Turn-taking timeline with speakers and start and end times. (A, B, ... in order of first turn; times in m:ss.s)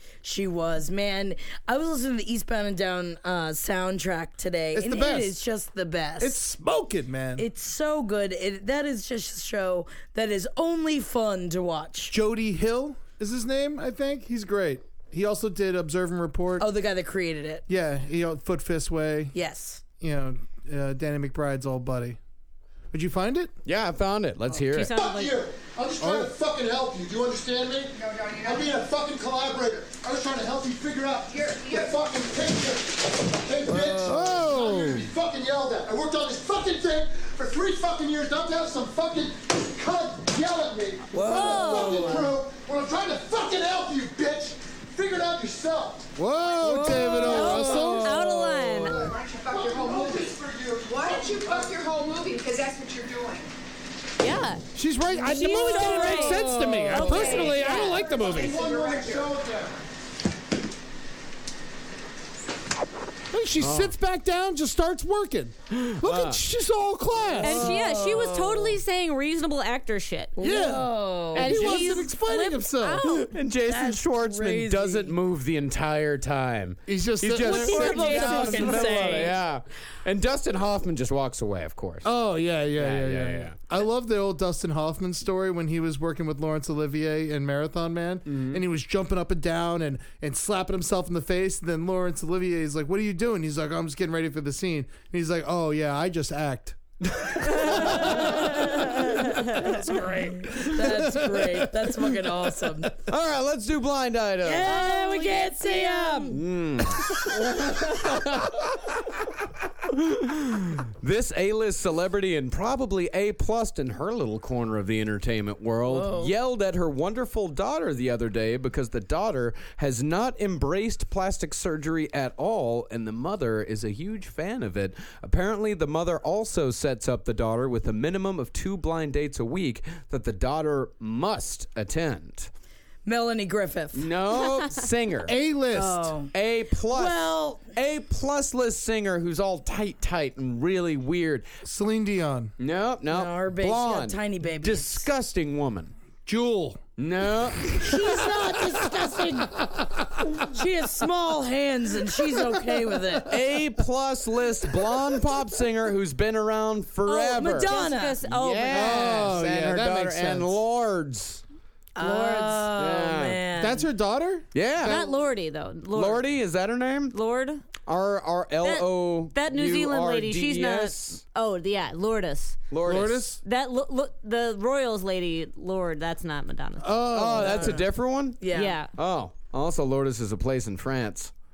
0:00.2-0:06.4 A
0:04.7-0:05.4 B
0:06.2-0:07.5 B
0:07.4-0:12.1 A
0:12.1-0:16.7 B
0:16.6-0:17.6 A
0:17.7-0:19.4 B
0:19.3-0:19.8 A
0:20.0-0:22.2 B
0:22.9-0:23.5 B
0:23.6-0:24.9 C
0:24.7-0:25.4 D
0:24.9-0:46.1 E
0:26.0-0:26.3 B
0:28.0-0:28.8 F
0:31.3-0:31.9 F
0:33.7-0:34.5 A
0:34.0-0:35.1 B
0:41.1-0:42.4 A
0:41.2-0:42.3 D
0:46.2-0:48.3 B
0:46.6-0:48.7 A
0:47.2-0:49.1 D
0:48.7-0:51.8 E
0:48.8-0:53.5 F
0:54.2-0:54.6 D
0:54.7-0:58.6 B
0:55.1-0:58.0 D
0:55.4-0:57.5 A
0:57.3-0:59.4 F
0:58.1-0:59.8 E
1:03.3-1:07.8 B
1:03.6-1:03.9 C
1:05.7-1:06.4 C
1:07.4-1:08.8 A
1:07.4-1:10.4 D
1:10.4-1:11.9 A
1:10.4-1:13.3 B
1:11.4-1:13.3 D
1:11.4-1:11.8 C
1:13.1-1:15.1 A
1:13.3-1:22.1 C
1:16.9-1:18.2 B
1:17.4-1:19.4 D
1:17.4-1:19.4 A
1:22.0-1:42.7 B
1:22.8-1:23.6 C
1:28.3-1:28.6 C
1:37.2-1:38.6 C
1:37.4-1:39.7 D
1:40.5-1:40.7 C
1:40.7-1:42.9 A
1:43.0-1:44.8 C
1:44.4-1:46.4 A
1:44.6-1:46.4 D
1:46.3-1:49.0 C
1:49.9-2:12.5 C
1:55.9-1:56.3 A
2:13.0-2:14.1 A
2:13.9-2:15.3 C
2:15.2-2:16.2 B
2:15.7-2:16.3 A
2:16.3-2:21.5 C
2:16.9-2:17.6 A
2:21.6-2:22.5 B
2:22.6-2:25.9 C
2:23.1-2:25.1 A
2:26.3-2:26.8 B
2:27.0-2:28.1 C
2:27.7-2:30.5 B
2:27.8-2:29.7 A
2:30.3-2:33.4 A
2:32.3-2:33.2 B
2:33.3-2:41.4 C
2:37.1-2:38.2 A
2:37.2-2:39.3 D
2:38.7-2:40.6 B
2:42.0-2:43.9 A
2:42.0-2:42.7 B
2:42.8-2:43.4 C
2:43.6-2:45.1 B
2:44.5-2:45.0 C
2:44.8-2:46.2 D
2:45.9-2:47.2 C
2:47.1-2:47.6 D
2:47.9-2:51.2 C
2:48.6-2:52.6 D
2:52.7-2:53.3 C
2:52.8-2:53.4 B
2:53.4-2:57.0 D
2:56.8-2:57.8 B
2:57.1-2:58.4 C
2:57.4-2:57.9 A
2:58.4-2:58.8 A
2:58.5-2:58.9 D
2:58.9-3:01.3 C